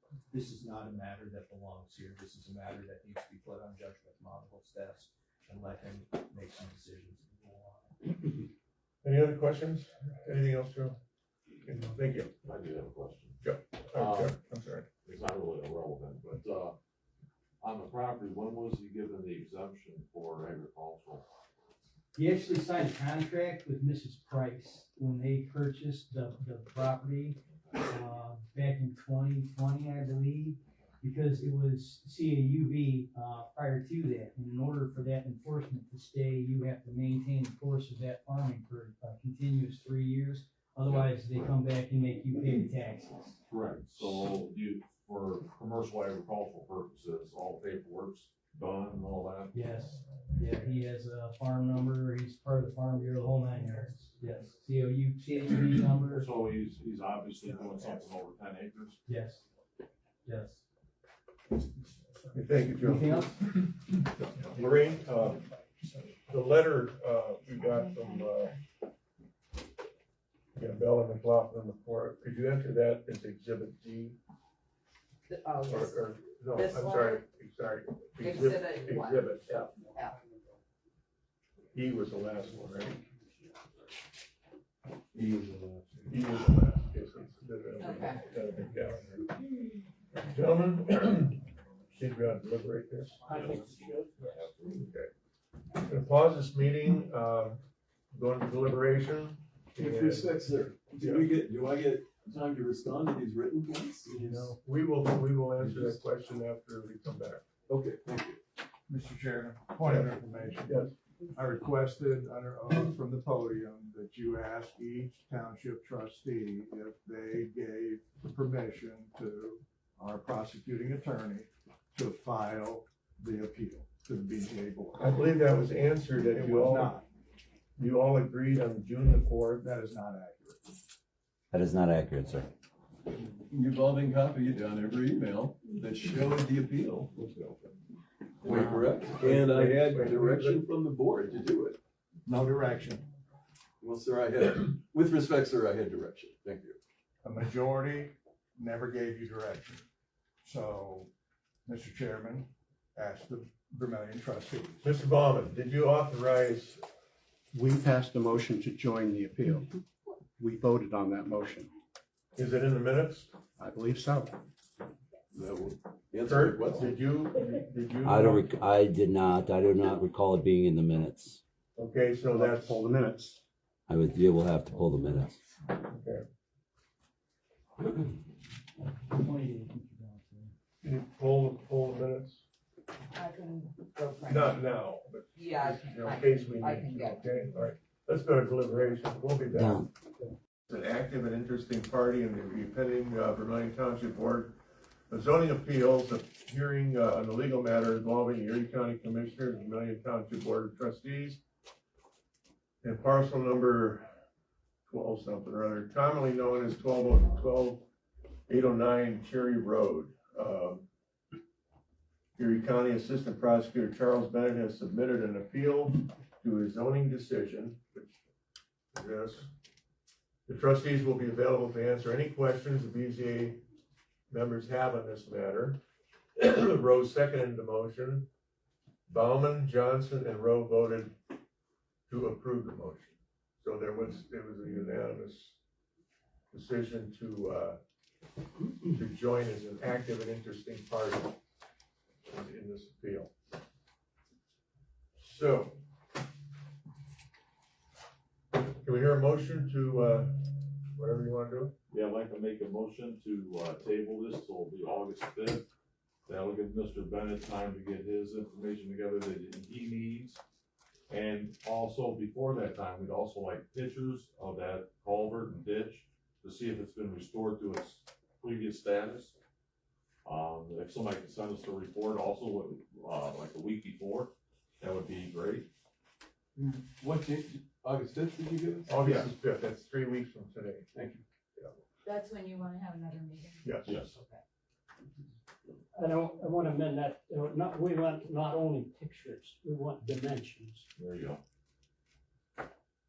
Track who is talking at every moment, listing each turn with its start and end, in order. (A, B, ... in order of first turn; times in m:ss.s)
0:00.3-0:08.4 A
0:09.0-0:11.0 B
0:11.6-0:12.3 B
0:12.4-0:13.4 C
0:13.4-0:14.9 B
0:13.9-0:14.4 C
0:15.0-0:16.8 C
0:17.6-0:21.2 C
0:22.2-0:43.4 D
0:27.6-0:28.0 C
0:43.5-0:49.6 C
0:49.5-0:56.3 D
0:56.1-0:59.0 C
0:57.6-0:58.0 E
0:59.1-0:59.4 D
1:00.2-1:00.6 D
1:02.3-1:03.6 B
1:02.8-1:03.4 D
1:04.3-1:05.5 B
1:06.1-1:08.6 B
1:07.7-1:08.4 F
1:10.6-1:14.2 B
1:15.3-1:17.2 F
1:15.6-1:19.9 B
1:18.2-1:20.2 F
1:21.7-1:23.0 B
1:26.1-1:29.3 B
1:27.8-1:28.2 F
1:30.1-1:33.3 B
1:33.3-1:34.9 C
1:33.6-1:34.1 G
1:34.7-1:35.1 B
1:35.8-1:37.6 B
1:38.1-1:40.4 B
1:39.8-1:44.5 H
1:40.9-1:41.3 B
1:44.1-1:47.4 B
1:45.6-1:46.0 H
1:47.7-1:48.4 H
1:48.9-2:05.2 E
1:49.8-1:50.9 B
2:05.0-2:07.0 B
2:06.3-2:07.1 E
2:07.8-2:09.6 B
2:09.6-2:10.7 E
2:11.5-2:12.5 I
2:13.5-2:17.7 H
2:18.4-2:21.8 H
2:18.8-2:20.7 B
2:22.3-2:23.1 E
2:23.8-2:26.8 H
2:27.2-2:29.8 E
2:30.4-2:31.1 E
2:31.7-2:34.8 E
2:34.8-2:36.8 B
2:37.5-2:39.7 J
2:40.4-2:41.7 J
2:42.4-2:43.3 B
2:43.6-2:44.4 J
2:45.3-2:47.0 H
2:46.2-2:48.5 B
2:48.0-2:51.4 I
2:51.8-2:52.8 B
2:52.3-2:53.4 J
2:53.9-2:55.4 I
2:55.8-2:56.2 B
2:59.1-3:00.5 D
3:00.8-3:02.4 B
3:03.1-3:07.5 F
3:04.3-3:09.9 B
3:09.5-3:09.9 I
3:10.7-3:14.6 B
3:15.1-3:21.4 B
3:22.8-3:24.1 B
3:24.9-3:27.9 B
3:28.5-3:30.9 B
3:32.4-3:38.2 B
3:38.9-3:39.5 B
3:40.5-3:43.6 B
3:44.3-3:45.8 B
3:46.4-3:48.3 B
3:49.1-3:51.2 B
3:52.1-3:55.6 B
3:56.5-3:57.8 B
3:58.9-4:01.4 B
4:02.3-4:03.3 B
4:05.2-4:05.8 B
4:08.6-4:11.7 B
4:11.9-4:15.7 C
4:16.3-4:20.4 C
4:21.1-4:29.4 C
4:30.2-4:35.7 C
4:36.6-4:39.3 H
4:38.9-4:40.9 B
4:40.9-4:41.2 H
4:42.0-4:44.4 F
4:43.6-4:44.0 B
4:43.8-4:44.2 C
4:46.0-4:50.8 G
4:51.0-4:51.4 C